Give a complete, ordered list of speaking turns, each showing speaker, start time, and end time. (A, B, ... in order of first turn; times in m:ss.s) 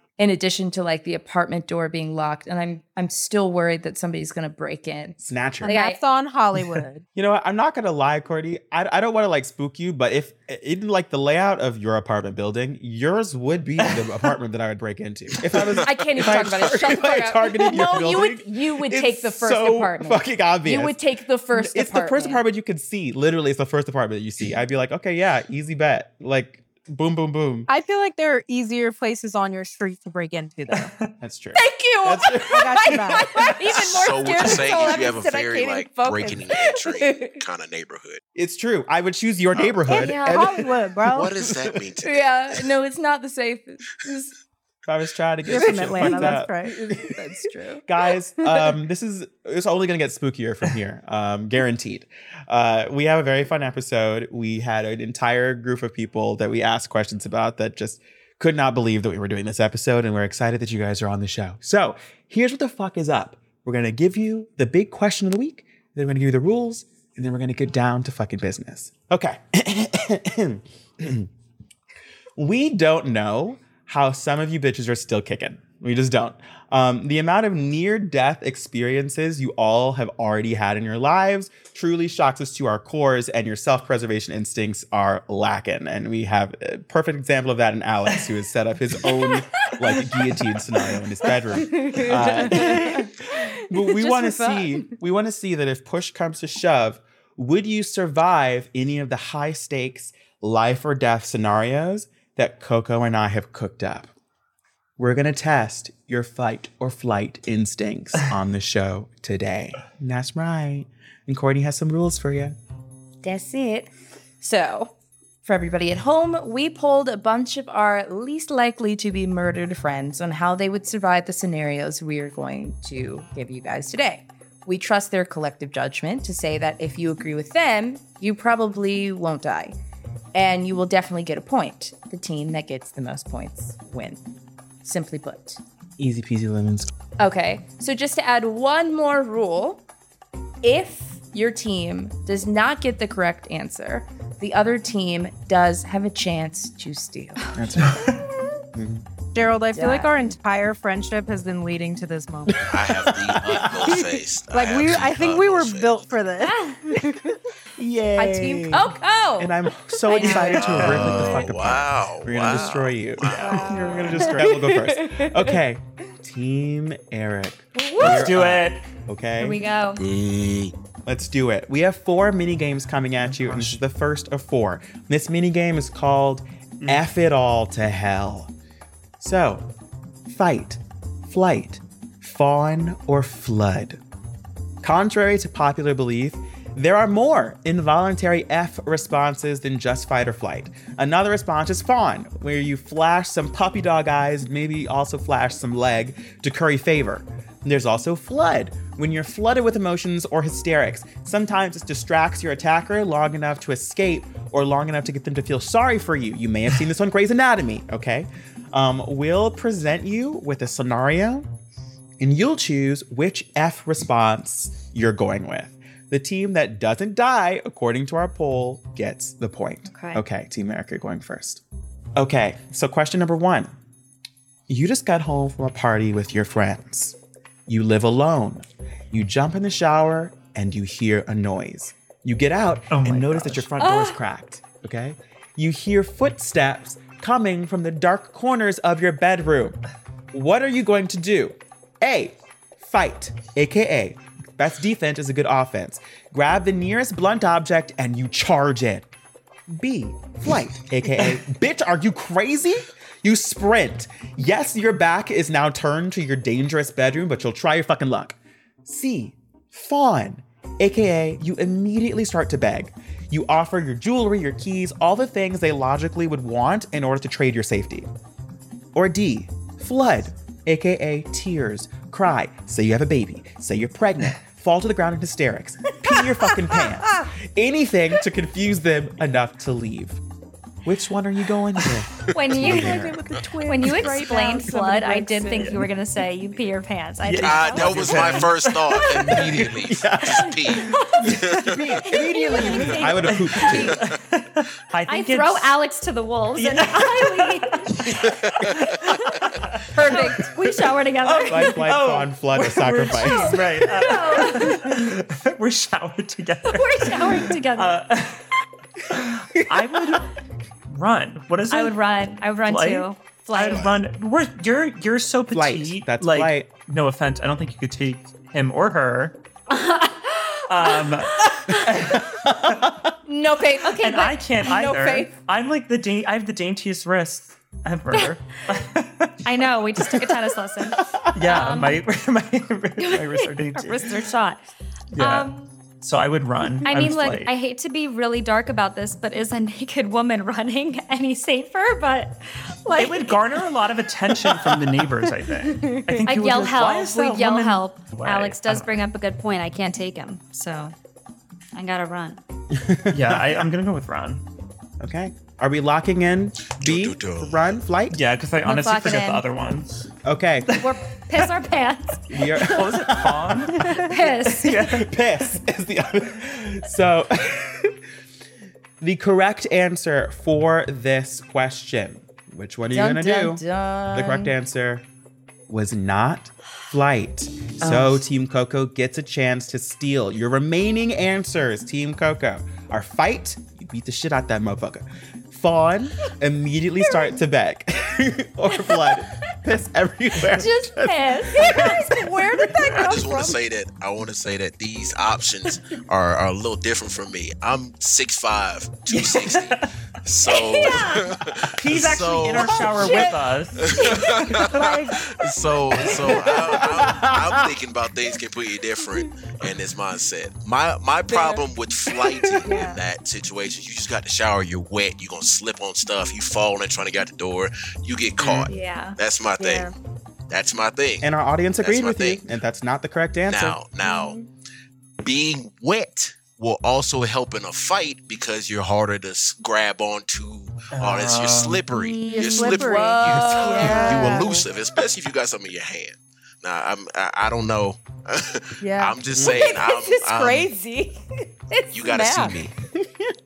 0:00.2-0:06.0 A
0:05.2-0:05.8 B
0:05.6-0:07.0 C
0:07.2-0:21.0 B
0:15.8-0:22.4 A
0:21.5-0:27.7 B
0:27.7-0:30.9 C
0:30.7-0:31.1 D
0:31.2-0:33.3 B
0:31.6-0:37.4 A
0:32.5-0:33.3 C
0:33.7-0:38.2 E
0:38.4-0:40.7 B
0:39.5-0:39.8 E
0:39.9-0:41.3 C
0:40.0-0:40.3 A
0:41.1-0:42.6 E
0:41.5-0:41.7 B
0:42.0-0:44.3 A
0:44.9-1:11.3 B
0:45.5-0:46.7 C
0:45.7-0:47.8 A
0:48.4-0:48.7 A
1:12.4-1:44.1 B
1:31.6-1:34.9 A
1:45.0-1:52.6 B
1:53.2-1:53.9 A
1:54.4-1:54.9 A
1:55.4-2:09.8 A
2:10.4-2:14.2 A
2:14.8-2:15.6 A
2:16.0-2:16.9 B
2:17.2-2:19.8 A
2:20.6-2:27.4 A
2:27.5-2:29.0 B
2:27.8-2:28.1 D
2:29.4-2:32.7 C
2:29.7-2:30.2 A
2:32.5-2:34.0 B
2:32.6-2:36.1 E
2:33.9-2:36.6 C
2:36.4-2:37.4 A
2:37.8-2:49.6 B
2:38.2-2:40.8 A
2:40.2-2:41.4 D
2:40.5-2:44.2 E
2:43.5-2:44.3 D
2:44.2-2:45.5 A
2:47.8-2:48.1 A
2:48.0-2:48.9 D
2:49.4-2:50.0 F
2:50.0-2:50.7 E
2:51.1-2:58.5 B
2:53.3-2:53.8 D
2:59.2-2:59.7 B
3:00.3-3:04.0 B
3:04.8-3:31.5 B
3:32.2-3:41.6 B
3:39.9-3:40.2 F
3:42.2-3:43.7 B
3:44.7-3:47.2 B
3:47.7-3:59.8 B
3:52.9-3:53.7 D
3:53.8-3:54.2 A
4:00.3-4:09.1 B
4:09.7-4:28.1 B
4:28.9-4:40.2 B
4:40.8-4:43.2 B
4:42.3-4:48.4 F
4:42.6-4:45.8 A
4:45.5-4:45.9 D
4:47.2-4:49.6 D
4:47.4-4:52.0 E
4:49.4-4:54.0 B
4:50.9-4:51.3 F
4:52.0-4:53.9 F
4:52.7-4:55.8 D
4:55.1-4:58.4 F
4:56.5-5:08.5 D
4:59.9-5:00.5 A
5:00.0-5:02.0 F
5:01.5-5:03.7 B
5:03.2-5:05.1 F
5:06.7-5:08.0 F
5:09.1-5:10.3 D
5:09.6-5:10.2 B
5:10.9-5:12.0 D
5:11.7-5:13.9 F
5:12.6-5:19.4 D
5:15.5-5:16.7 B
5:19.7-5:21.9 F
5:20.7-5:22.7 D
5:22.0-5:23.1 B
5:23.3-5:25.3 A
5:24.0-5:30.5 D
5:28.1-5:28.6 F
5:29.4-5:32.0 F
5:31.3-5:34.3 D
5:33.0-5:34.6 F
5:35.1-5:37.5 D
5:35.2-5:35.8 F
5:36.8-5:43.4 F
5:42.9-5:48.9 D
5:45.8-5:50.9 F
5:51.8-5:52.4 F
5:52.7-5:53.6 B
5:53.1-5:54.4 D
5:55.0-5:58.2 B
5:56.8-5:57.8 E
5:58.1-6:00.1 D
5:58.7-5:59.4 F
5:58.9-5:59.2 A
6:00.2-6:00.8 B
6:00.7-6:01.5 D
6:00.8-6:02.9 F
6:02.3-6:03.7 B
6:02.6-6:05.1 D
6:03.7-6:05.0 F
6:04.8-6:08.0 B
6:09.0-6:15.0 B
6:12.9-6:14.5 A
6:15.7-6:32.1 B
6:17.8-6:18.2 D
6:30.4-6:32.3 F
6:31.6-6:33.6 C
6:32.9-6:43.1 E
6:39.1-6:39.9 D
6:40.5-6:41.3 F
6:41.8-6:44.7 D
6:43.8-6:59.9 E
6:44.6-6:45.2 C
6:46.1-6:47.8 B
6:51.3-6:51.6 A
6:52.6-6:53.0 C
6:58.7-6:59.2 F
6:59.6-6:59.9 C
7:00.5-7:01.3 E
7:01.2-7:03.8 B
7:01.8-7:02.4 E
7:03.5-7:04.4 E
7:05.2-7:20.7 E
7:10.9-7:11.9 D
7:11.9-7:12.8 F
7:12.3-7:14.7 C
7:12.6-7:14.6 A
7:18.8-7:19.2 C
7:19.3-7:19.7 B
7:19.4-7:22.2 A
7:21.9-7:22.7 E
7:22.0-7:22.6 C
7:22.9-7:23.3 B